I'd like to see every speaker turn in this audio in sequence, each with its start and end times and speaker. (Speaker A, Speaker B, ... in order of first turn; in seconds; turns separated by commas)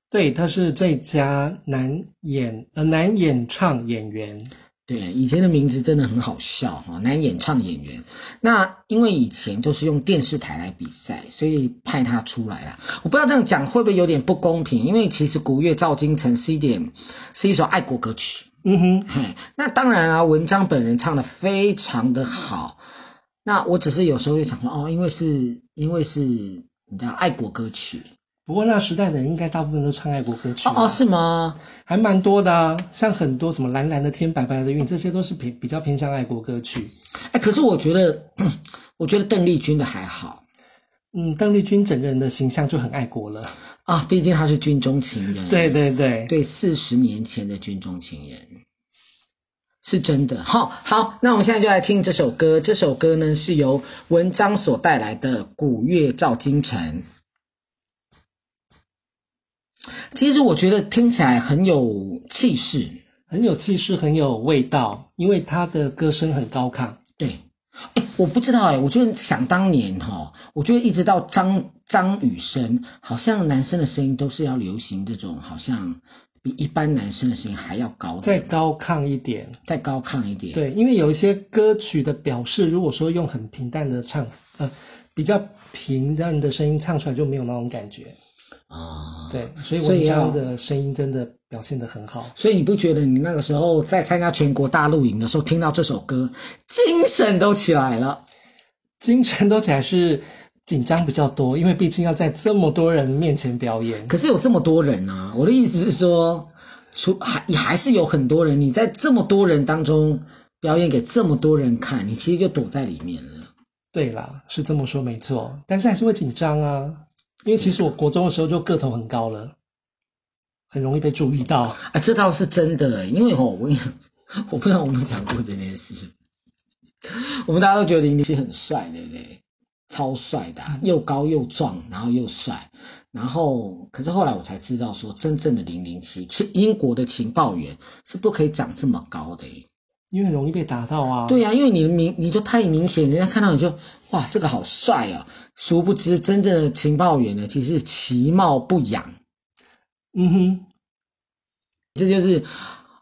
Speaker A: 0.1-4.5, Speaker B: 4.9-18.5, Speaker A: 18.6-19.1, Speaker B: 19.1-22.8, Speaker B: 23.4-28.1, Speaker A: 28.5-31.0, Speaker B: 30.6-31.6, Speaker A: 31.9-36.9, Speaker B: 37.3-40.4, Speaker A: 41.1-43.5, Speaker B: 43.9-45.7, Speaker A: 45.5-46.3, Speaker B: 46.3-48.5, Speaker B: 49.8-57.0, Speaker B: 60.1-63.0, Speaker A: 63.3-67.0, Speaker B: 68.0-78.5, Speaker A: 78.2-79.6, Speaker B: 79.7-80.6, Speaker A: 80.5-88.2, Speaker B: 88.7-90.4, Speaker A: 89.3-92.3, Speaker B: 92.3-98.2, Speaker A: 99.0-104.1, Speaker B: 104.1-113.5, Speaker A: 113.9-119.5, Speaker A: 120.7-121.8, Speaker B: 121.8-126.1, Speaker B: 127.0-139.6, Speaker A: 140.1-141.4, Speaker B: 141.2-149.1, Speaker A: 150.1-150.6, Speaker B: 151.9-152.7